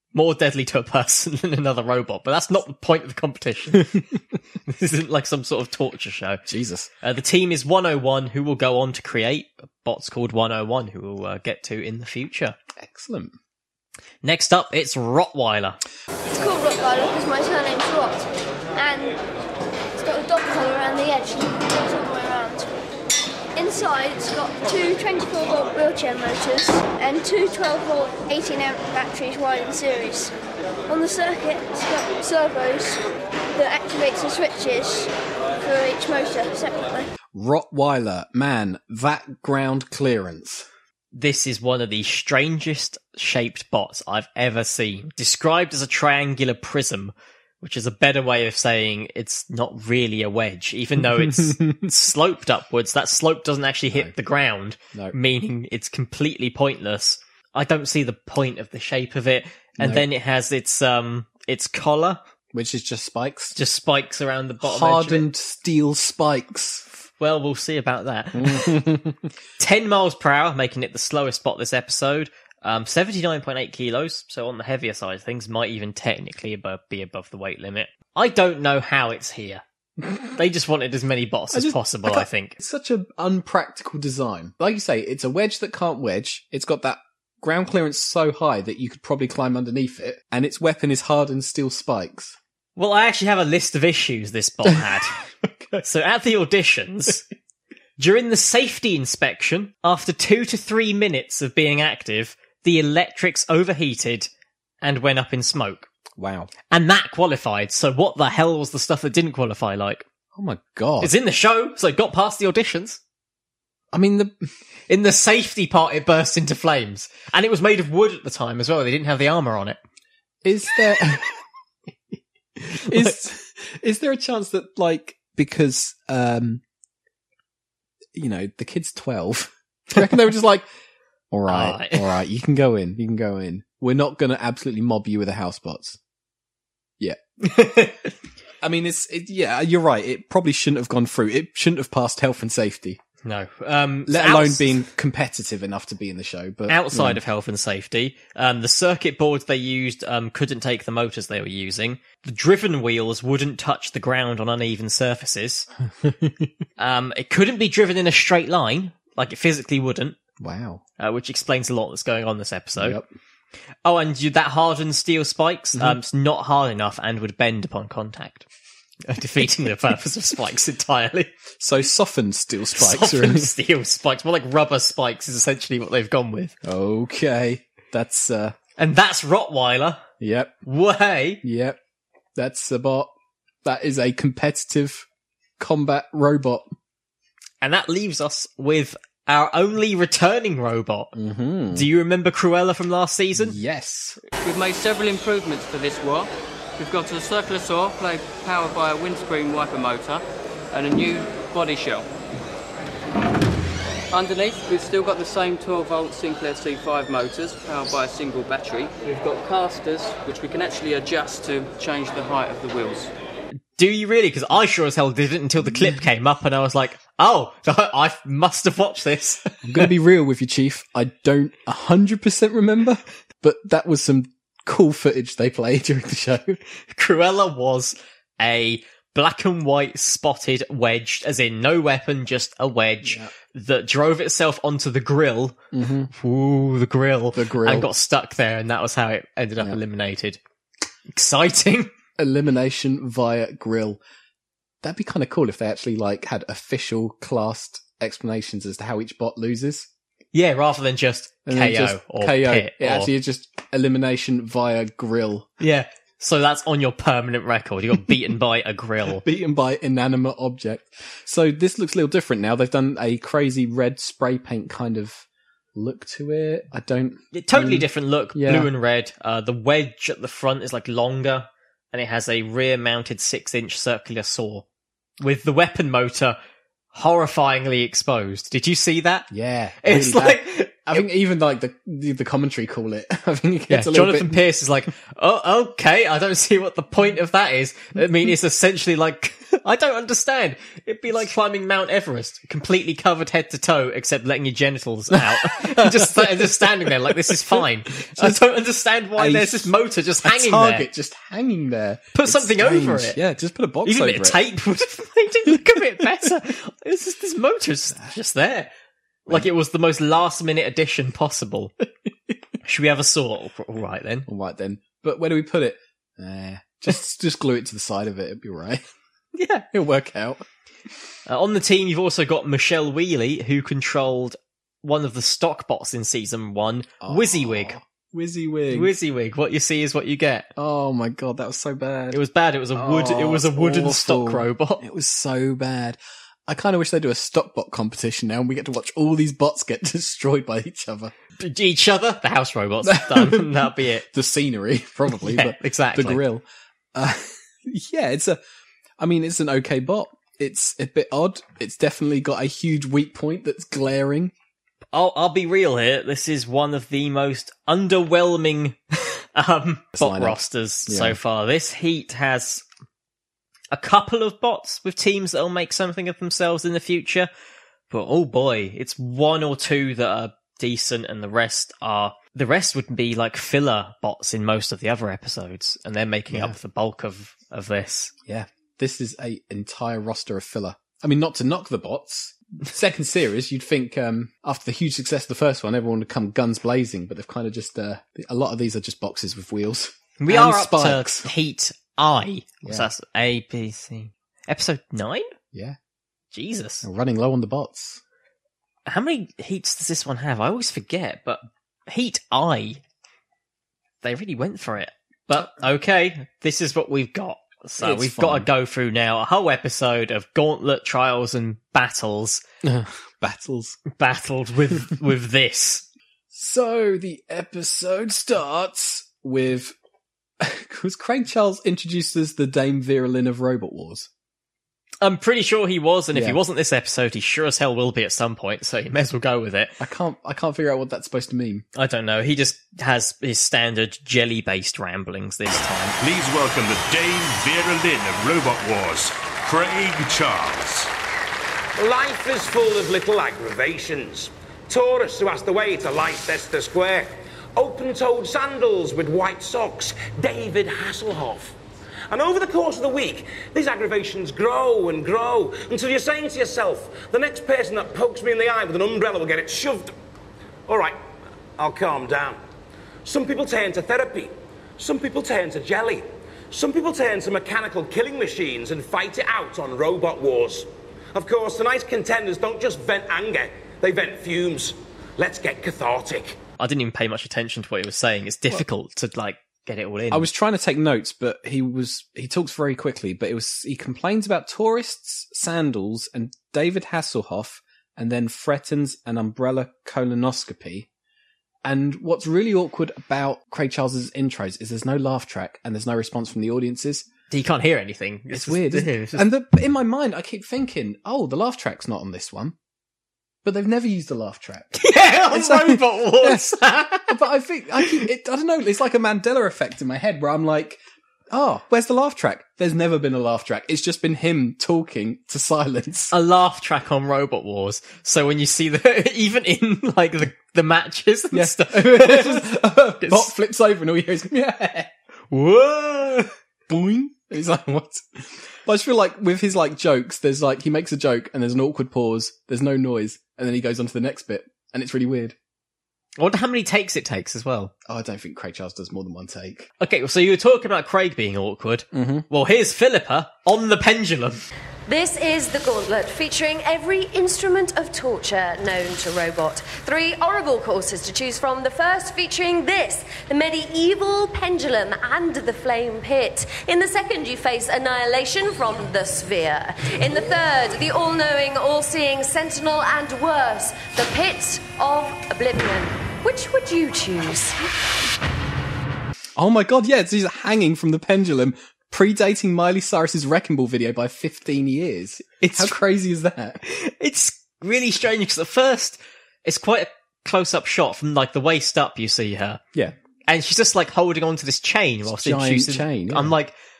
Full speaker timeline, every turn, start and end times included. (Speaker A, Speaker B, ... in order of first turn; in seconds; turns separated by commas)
Speaker A: 0.1-4.0, Speaker A: 4.7-6.4, Speaker B: 6.5-6.9, Speaker A: 7.0-12.6, Speaker B: 12.8-13.3, Speaker A: 14.2-15.8, Speaker C: 16.3-19.2, Speaker C: 20.0-22.7, Speaker C: 23.5-30.3, Speaker C: 30.9-33.0, Speaker C: 33.5-35.1, Speaker C: 35.6-37.1, Speaker B: 37.3-40.7, Speaker A: 41.1-62.2, Speaker B: 51.0-51.9, Speaker B: 59.8-60.0, Speaker B: 62.5-63.5, Speaker A: 63.5-65.2, Speaker B: 64.6-66.9, Speaker A: 67.2-68.8, Speaker B: 68.3-69.3, Speaker A: 69.6-79.6, Speaker A: 80.3-82.5, Speaker B: 81.5-92.4, Speaker A: 92.8-95.2, Speaker B: 94.7-95.0, Speaker A: 95.8-97.2, Speaker A: 98.0-104.3, Speaker A: 104.8-105.9, Speaker B: 106.2-106.5, Speaker A: 106.7-110.0, Speaker B: 110.3-111.1, Speaker A: 111.0-113.0, Speaker B: 113.9-114.3, Speaker A: 114.9-119.8, Speaker B: 120.4-121.3, Speaker B: 122.6-126.6, Speaker B: 128.1-130.7, Speaker B: 131.3-136.0, Speaker A: 131.5-132.1, Speaker A: 137.4-138.1, Speaker B: 138.6-143.0, Speaker A: 143.2-144.7, Speaker B: 144.1-147.2, Speaker A: 146.7-155.7, Speaker B: 156.0-156.5, Speaker A: 156.8-160.2, Speaker B: 160.4-160.8, Speaker A: 161.0-163.0, Speaker B: 162.8-163.1, Speaker A: 163.8-168.5, Speaker A: 169.1-171.3, Speaker B: 171.6-173.5, Speaker A: 172.8-176.5, Speaker B: 176.6-178.6, Speaker A: 178.8-180.0, Speaker B: 180.2-180.6, Speaker A: 180.6-181.4, Speaker B: 181.4-181.8, Speaker B: 182.3-183.1, Speaker B: 183.6-185.1, Speaker B: 185.6-186.7, Speaker A: 187.6-191.1, Speaker B: 191.1-191.9, Speaker A: 191.7-193.6, Speaker B: 193.3-194.2, Speaker D: 194.4-202.1, Speaker D: 204.1-213.1, Speaker A: 213.8-219.9, Speaker B: 215.6-216.0, Speaker B: 219.6-226.6, Speaker A: 226.9-240.4, Speaker B: 233.0-233.3, Speaker B: 235.7-236.1, Speaker B: 237.3-237.9, Speaker A: 241.1-241.9, Speaker B: 242.2-244.0, Speaker B: 244.8-249.9, Speaker A: 250.3-253.1, Speaker B: 251.4-255.6, Speaker A: 255.6-259.2, Speaker B: 259.0-268.7, Speaker A: 267.3-274.6, Speaker A: 275.2-276.4, Speaker A: 276.9-279.3, Speaker B: 279.3-284.4, Speaker A: 279.8-281.1, Speaker A: 283.7-300.9, Speaker B: 295.1-298.4, Speaker B: 299.1-304.4, Speaker A: 302.1-303.2, Speaker A: 303.8-308.7, Speaker B: 305.5-306.3, Speaker A: 309.3-311.7, Speaker A: 312.6-314.3, Speaker B: 314.3-318.8, Speaker B: 319.4-320.4, Speaker A: 321.2-327.8, Speaker B: 327.0-328.9, Speaker A: 328.7-330.5, Speaker B: 330.6-332.2, Speaker A: 332.1-334.8, Speaker B: 332.7-341.1, Speaker A: 341.4-344.1, Speaker B: 342.8-348.4, Speaker A: 345.1-346.2, Speaker B: 349.0-354.3, Speaker A: 354.9-362.6, Speaker B: 359.9-361.2, Speaker A: 363.7-367.3, Speaker A: 367.9-378.1, Speaker B: 376.3-376.6, Speaker B: 378.2-391.3, Speaker A: 390.2-395.3, Speaker A: 396.3-396.9, Speaker B: 396.8-398.0, Speaker A: 398.9-402.8, Speaker A: 404.0-412.4, Speaker B: 407.8-408.5, Speaker B: 412.6-413.8, Speaker A: 413.9-415.9, Speaker B: 416.3-419.7, Speaker B: 420.4-424.1, Speaker A: 425.0-429.8, Speaker B: 426.1-426.4, Speaker B: 429.8-431.6, Speaker A: 431.7-436.0, Speaker E: 436.0-440.9, Speaker F: 441.8-451.5, Speaker F: 452.1-459.9, Speaker F: 460.7-461.0, Speaker F: 461.6-462.4, Speaker F: 463.0-476.4, Speaker A: 476.6-480.3, Speaker B: 480.1-490.9, Speaker B: 491.6-497.1, Speaker A: 497.3-499.3, Speaker B: 498.3-502.6, Speaker B: 503.4-516.1, Speaker A: 504.8-507.2, Speaker A: 516.1-523.3, Speaker B: 521.3-524.9, Speaker A: 525.3-526.3, Speaker B: 526.7-535.3, Speaker A: 536.2-537.7, Speaker B: 537.8-539.7, Speaker A: 539.8-544.4, Speaker B: 541.9-542.2, Speaker G: 544.9-567.6, Speaker B: 569.4-576.6, Speaker A: 575.5-575.7, Speaker A: 576.6-582.6, Speaker A: 583.3-586.5, Speaker B: 585.0-586.3